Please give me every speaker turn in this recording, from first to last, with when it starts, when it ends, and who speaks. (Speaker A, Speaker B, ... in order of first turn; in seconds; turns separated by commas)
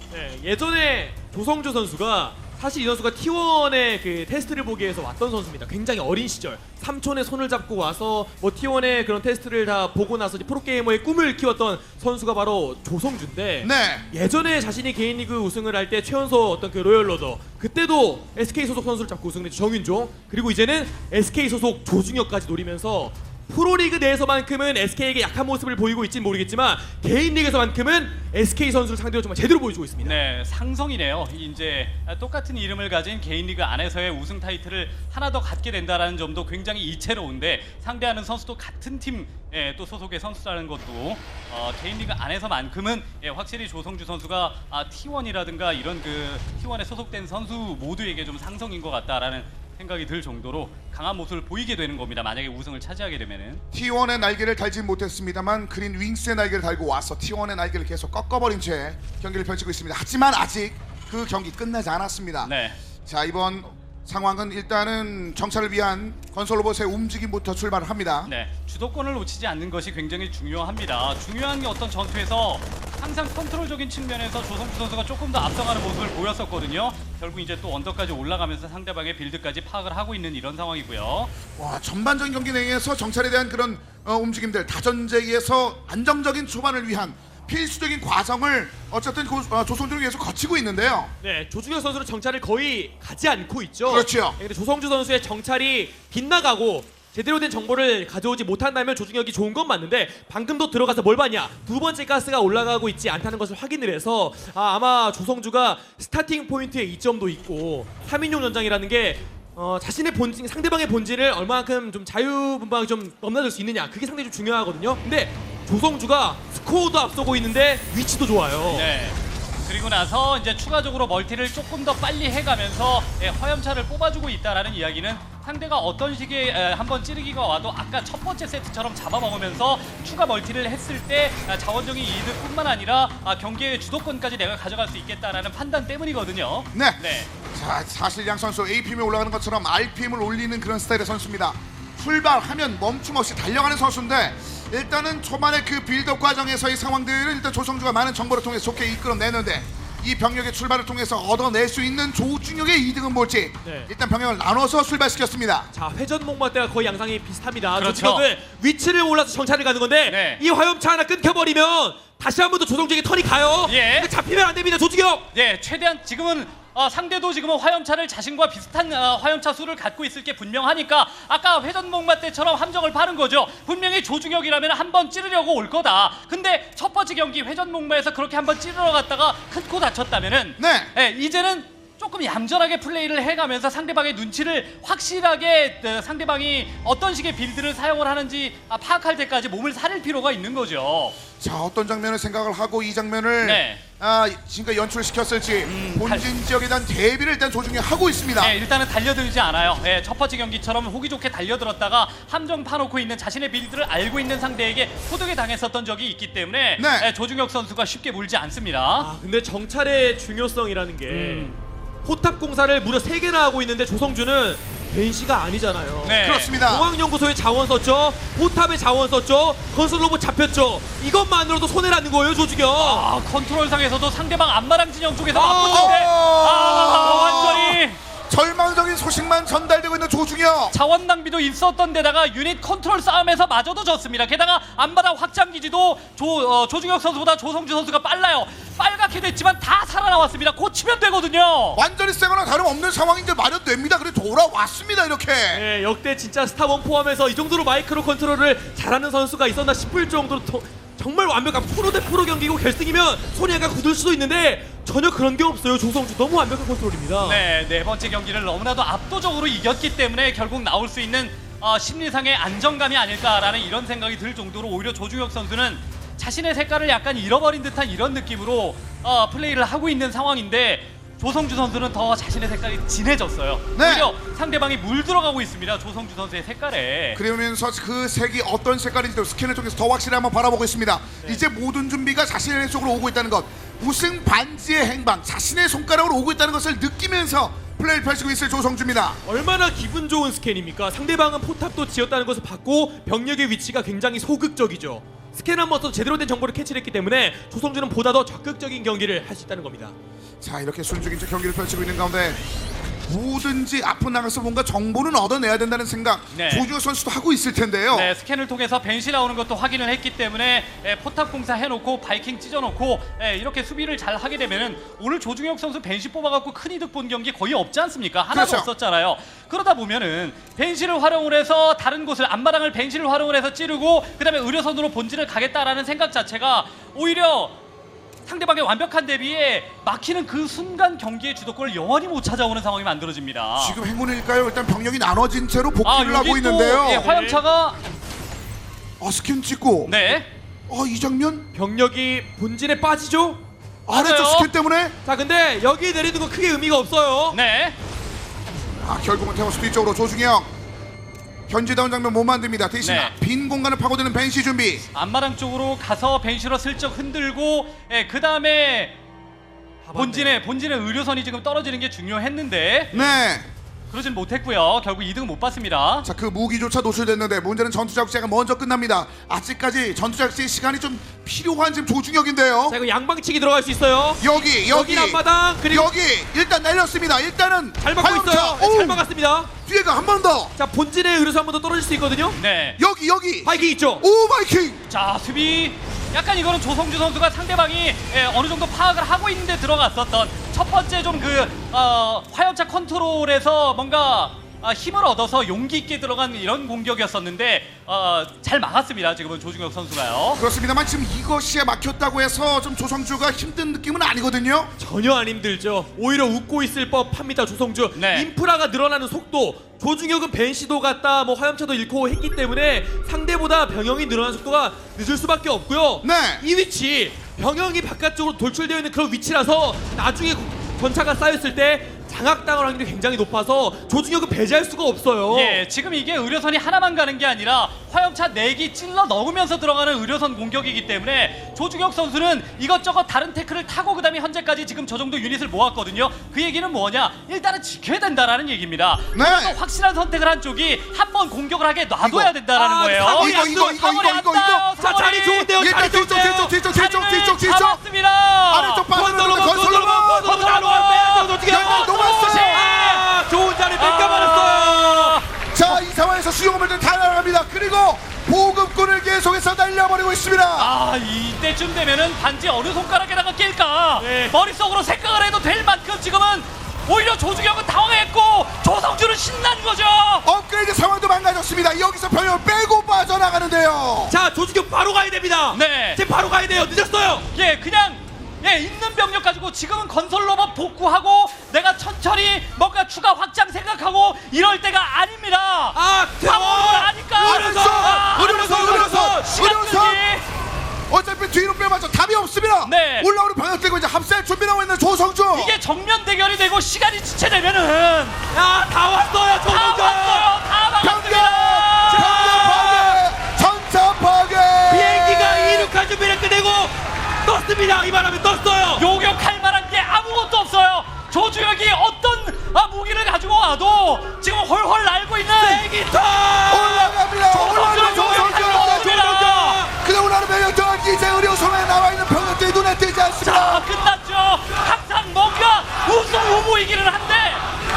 Speaker A: 0.1-30.2, Speaker B: 13.6-14.1, Speaker C: 30.0-53.6, Speaker B: 53.7-62.5, Speaker C: 62.4-62.8, Speaker B: 63.0-68.3, Speaker C: 68.3-81.3, Speaker B: 81.6-91.1, Speaker A: 91.2-118.9, Speaker B: 93.8-94.4, Speaker C: 118.7-137.3, Speaker B: 136.7-155.7, Speaker A: 153.6-153.9, Speaker A: 155.7-165.2, Speaker C: 157.7-158.3, Speaker C: 160.1-160.4, Speaker C: 163.7-164.1, Speaker C: 165.3-191.2, Speaker B: 180.6-180.9, Speaker B: 191.4-198.6, Speaker C: 193.4-193.8, Speaker C: 195.6-196.3, Speaker C: 198.4-209.1, Speaker B: 206.8-207.1, Speaker A: 209.0-211.5, Speaker C: 211.1-211.6, Speaker A: 212.0-223.1, Speaker C: 216.0-216.6, Speaker B: 216.2-216.9, Speaker C: 222.8-228.0, Speaker A: 225.3-226.0, Speaker B: 225.7-230.7, Speaker C: 230.7-241.8, Speaker B: 241.7-245.6, Speaker A: 245.5-257.4, Speaker C: 257.2-277.2, Speaker B: 273.8-274.1, Speaker B: 277.1-289.2, Speaker A: 289.2-299.9, Speaker B: 300.4-302.4, Speaker B: 303.1-308.1, Speaker C: 306.3-306.7, Speaker C: 307.9-327.5, Speaker B: 318.3-318.7, Speaker C: 328.2-333.8, Speaker B: 333.6-337.1, Speaker C: 335.8-337.8, Speaker A: 337.0-337.4, Speaker B: 339.0-340.0, Speaker C: 339.9-340.3, Speaker B: 340.7-341.5, Speaker A: 341.5-343.4, Speaker B: 343.9-344.9, Speaker C: 343.9-344.5, Speaker A: 345.0-347.4, Speaker C: 347.3-347.8, Speaker B: 348.8-350.5, Speaker B: 351.5-354.8, Speaker C: 352.8-353.1, Speaker C: 354.9-358.9, Speaker A: 359.8-360.4, Speaker C: 359.9-363.2, Speaker B: 362.9-363.5, Speaker C: 363.9-366.1, Speaker B: 366.0-372.8, Speaker A: 372.7-375.9, Speaker B: 374.2-379.0, Speaker A: 377.8-379.5, Speaker B: 379.6-380.5, Speaker A: 380.6-382.4, Speaker C: 382.3-382.8, Speaker B: 382.8-384.8, Speaker A: 383.4-384.0, Speaker C: 384.9-400.4, Speaker B: 400.4-404.7, Speaker A: 404.8-425.6, Speaker C: 407.9-408.3, Speaker B: 416.0-416.4, Speaker C: 425.3-445.5, Speaker B: 439.1-439.6, Speaker B: 442.0-442.3, Speaker A: 442.5-443.8, Speaker B: 443.1-444.6, Speaker A: 444.8-446.6, Speaker B: 445.6-447.8, Speaker C: 446.6-448.9, Speaker B: 448.5-450.4, Speaker A: 448.9-455.2, Speaker C: 450.0-453.1, Speaker B: 451.5-452.7, Speaker C: 453.8-455.8, Speaker B: 455.5-460.7, Speaker C: 460.6-470.3, Speaker A: 463.9-464.3, Speaker B: 470.2-474.1, Speaker A: 474.1-477.2, Speaker C: 475.5-476.0, Speaker C: 477.3-490.2, Speaker A: 485.7-489.3, Speaker B: 487.2-490.0, Speaker B: 490.9-495.5, Speaker C: 492.6-493.1, Speaker C: 495.3-498.2, Speaker A: 498.3-500.3, Speaker C: 499.4-502.9, Speaker B: 500.8-505.7, Speaker A: 501.9-503.0, Speaker A: 504.7-508.9, Speaker C: 508.7-515.7, Speaker A: 515.4-517.0, Speaker B: 516.5-518.9, Speaker C: 517.3-519.6, Speaker A: 517.6-519.7, Speaker B: 519.8-523.6, Speaker C: 523.1-527.5